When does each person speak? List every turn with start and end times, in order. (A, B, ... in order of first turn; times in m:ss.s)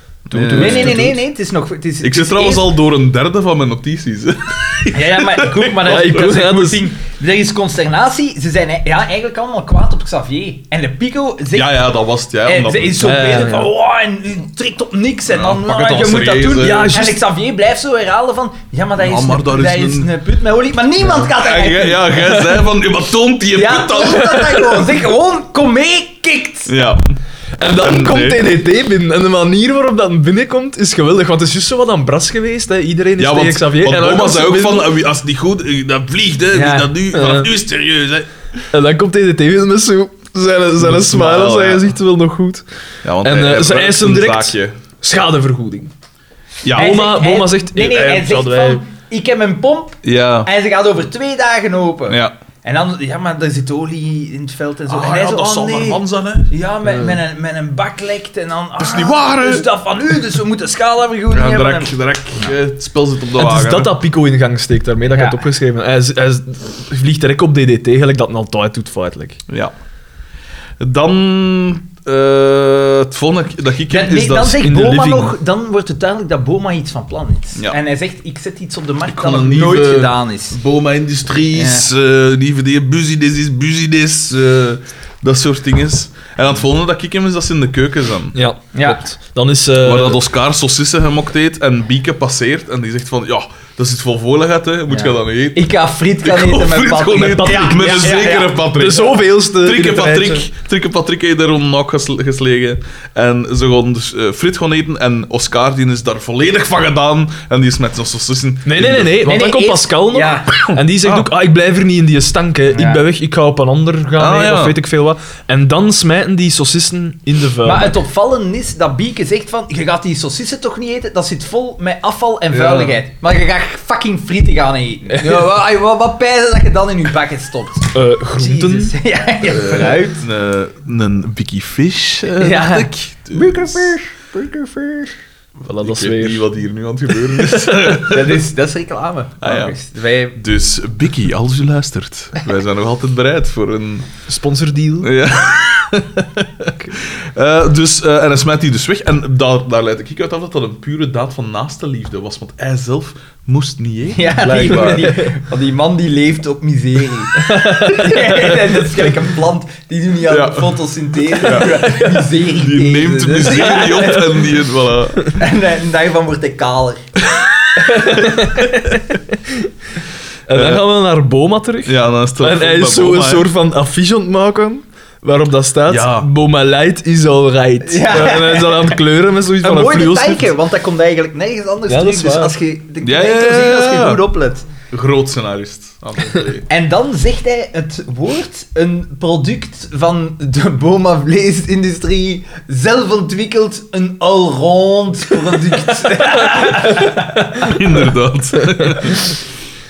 0:00.3-0:01.2 A
0:00.3-0:01.2 B
0:00.5-0:02.7 C
0:02.0-0:06.2 A
0:04.9-0:11.8 C
0:05.8-0:06.8 B
0:11.5-0:13.2 A
0:12.4-0:22.6 C
0:13.0-0:13.7 B
0:15.3-0:16.9 A
0:16.5-0:17.2 B
0:19.0-0:20.1 A
0:21.1-0:24.5 A
0:23.5-0:26.7 C
0:24.2-0:24.6 B
0:26.7-0:27.0 A
0:27.6-0:34.9 B
0:27.8-0:28.5 A
0:33.2-0:38.3 A
0:36.5-0:36.9 C
0:37.1-0:37.5 B
0:38.7-0:42.6 B
0:40.8-0:41.9 A
0:43.0-0:44.7 A
0:43.2-0:45.9 B
0:46.6-0:47.0 A
0:46.7-1:02.5 C
0:46.7-0:48.8 B
0:50.0-0:50.5 A
0:52.1-0:52.3 A
0:54.9-0:56.5 A
0:56.9-0:57.1 B
0:58.8-0:59.7 A
1:01.3-1:04.0 A
1:03.3-1:09.4 B
1:05.1-1:05.4 C
1:10.8-1:14.6 A
1:13.9-1:20.6 C
1:14.6-1:15.3 B
1:19.1-1:28.4 A
1:21.5-1:21.9 C
1:28.3-1:30.2 B
1:28.7-1:29.0 C
1:29.8-1:49.2 A
1:34.9-1:38.6 C
1:37.4-1:37.9 B
1:38.7-1:40.5 B
1:48.6-1:58.0 B
1:49.2-1:50.7 C
1:50.7-1:51.3 A
1:52.7-1:53.0 C
1:54.2-1:54.8 A
1:57.6-2:10.2 C
2:02.5-2:02.9 A
2:05.1-2:05.4 B
2:07.9-2:08.9 B
2:09.4-2:14.0 A
2:12.4-2:15.1 C
2:15.6-2:16.5 B
2:15.8-2:18.4 A
2:17.9-2:20.4 C
2:19.4-2:19.8 A
2:20.4-2:24.1 A
2:24.3-2:25.1 B
2:25.0-2:35.2 A
2:34.1-2:44.5 C
2:34.4-2:35.3 B
2:37.4-2:39.1 B
2:40.3-2:40.8 A
2:41.3-2:45.3 A
2:45.3-2:47.0 C
2:47.8-2:49.7 B
2:50.5-3:00.5 B
2:50.5-2:50.8 A
2:51.8-2:53.5 A
2:55.9-2:56.3 A
2:57.8-2:59.0 C
2:59.6-3:04.6 C
3:01.9-3:02.5 B
3:03.0-3:04.2 A
3:04.9-3:06.6 A
3:06.7-3:17.6 C
3:16.5-3:17.7 B
3:17.6-3:19.3 A
3:18.7-3:19.1 B